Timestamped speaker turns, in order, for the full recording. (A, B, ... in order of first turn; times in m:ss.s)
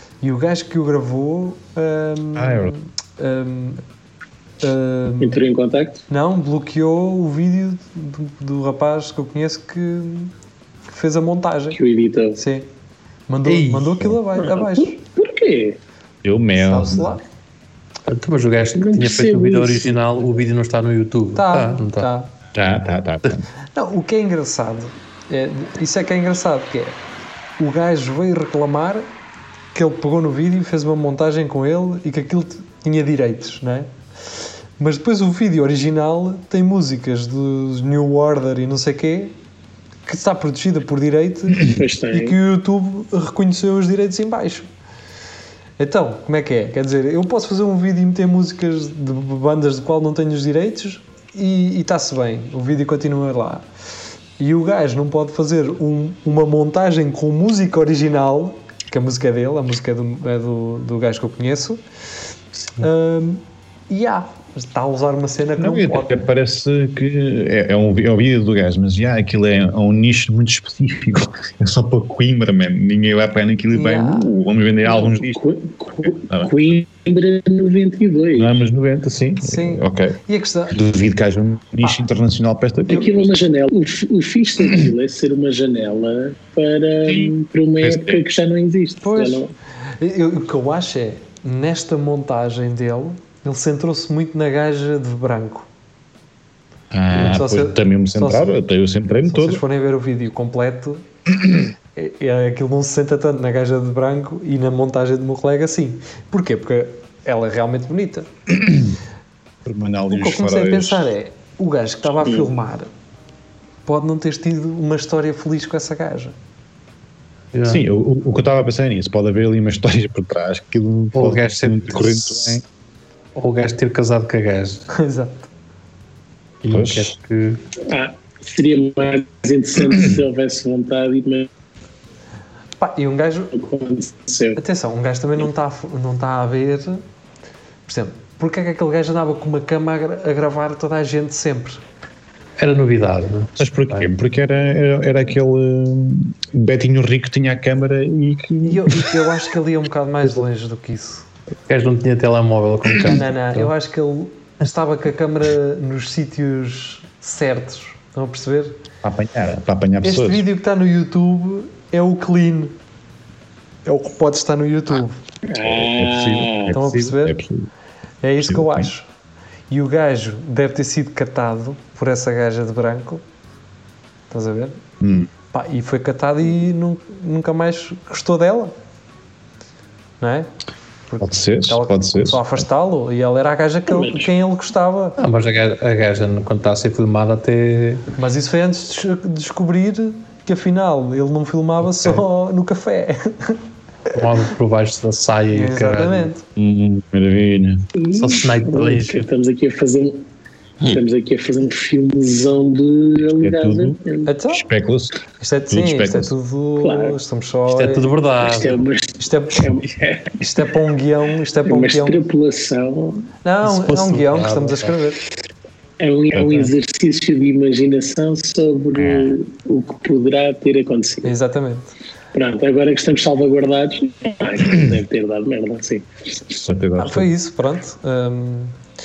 0:00.2-0:03.8 A
0:02.4-0:02.8 B
0:04.6-0:05.4 A
0:05.2-0:06.0 C
0:06.1-0:10.3 A
0:10.9-0:11.8 A
0:11.7-0:12.4 C
0:12.4-0:12.7 A
0:13.3-0:15.0 A
0:13.5-0:14.0 D
0:14.4-0:15.8 C
0:16.2-0:17.2 B
0:16.6-0:17.2 A
0:18.1-0:22.1 D
0:18.8-0:20.0 C
0:21.4-0:22.3 A
0:22.5-0:23.5 B
0:23.7-0:27.0 A
0:27.6-0:29.0 A
0:29.7-0:33.9 A
0:34.8-0:39.4 A
0:40.1-0:44.7 A
0:41.6-0:42.4 C
0:45.8-0:53.7 A
0:54.4-1:01.8 A
1:02.8-1:06.2 A
1:05.6-1:15.4 B
1:13.7-1:14.3 A
1:14.9-1:18.6 C
1:16.0-1:16.5 B
1:18.4-1:23.1 B
1:19.4-1:20.8 A
1:22.9-1:29.5 C
1:27.1-1:28.2 B
1:29.0-1:35.7 A
1:36.9-1:39.6 B
1:37.1-1:38.5 A
1:39.3-1:41.1 A
1:42.0-1:48.3 A
1:48.5-1:48.9 B
1:49.6-1:51.1 B
1:50.1-1:52.9 A
1:52.2-1:52.5 C
1:53.9-1:56.4 A
1:57.5-1:57.8 D
1:57.7-2:02.6 B
2:01.2-2:02.6 D
2:03.4-2:04.9 D
2:04.9-2:05.5 A
2:06.6-2:07.6 D
2:06.7-2:07.1 B
2:07.8-2:11.5 C
2:12.8-2:13.5 A
2:13.5-2:14.6 C
2:14.6-2:17.0 A
2:17.9-2:21.8 A
2:22.6-2:24.1 D
2:23.6-2:29.2 B
2:28.6-2:31.3 A
2:31.7-2:33.7 D
2:33.0-2:38.8 A
2:39.0-2:40.4 B
2:40.0-2:42.8 A
2:43.9-2:45.2 A
2:45.5-2:46.7 C
2:45.6-2:47.7 B
2:46.7-2:47.4 A
2:48.2-2:49.1 A
2:48.4-2:48.9 B
2:49.7-2:53.2 A
2:54.3-2:54.8 A
2:55.0-2:55.3 B
2:55.5-2:58.7 A
3:00.2-3:00.5 A
3:01.1-3:05.2 A
3:01.2-3:02.4 B
3:03.9-3:04.3 C
3:05.2-3:08.1 D
3:08.2-3:13.6 A
3:14.1-3:16.3 D
3:15.5-3:16.4 A
3:16.6-3:17.9 B
3:18.0-3:20.3 C
3:18.1-3:19.3 D
3:20.8-3:24.3 C
3:23.4-3:24.0 B
3:24.3-3:24.7 A
3:24.5-3:25.1 B
3:25.4-3:28.1 A
3:25.7-3:26.3 B
3:26.8-3:27.2 C
3:27.7-3:28.8 D
3:28.4-3:30.6 C
3:29.2-3:29.7 A
3:30.4-3:32.3 A
3:31.6-3:33.3 C
3:33.4-3:35.2 A
3:33.6-3:34.9 D
3:36.0-3:41.3 C
3:36.3-3:36.7 B
3:39.0-3:39.4 B
3:41.2-3:41.9 A
3:42.4-3:46.4 C
3:46.6-3:47.3 B
3:47.0-3:48.8 A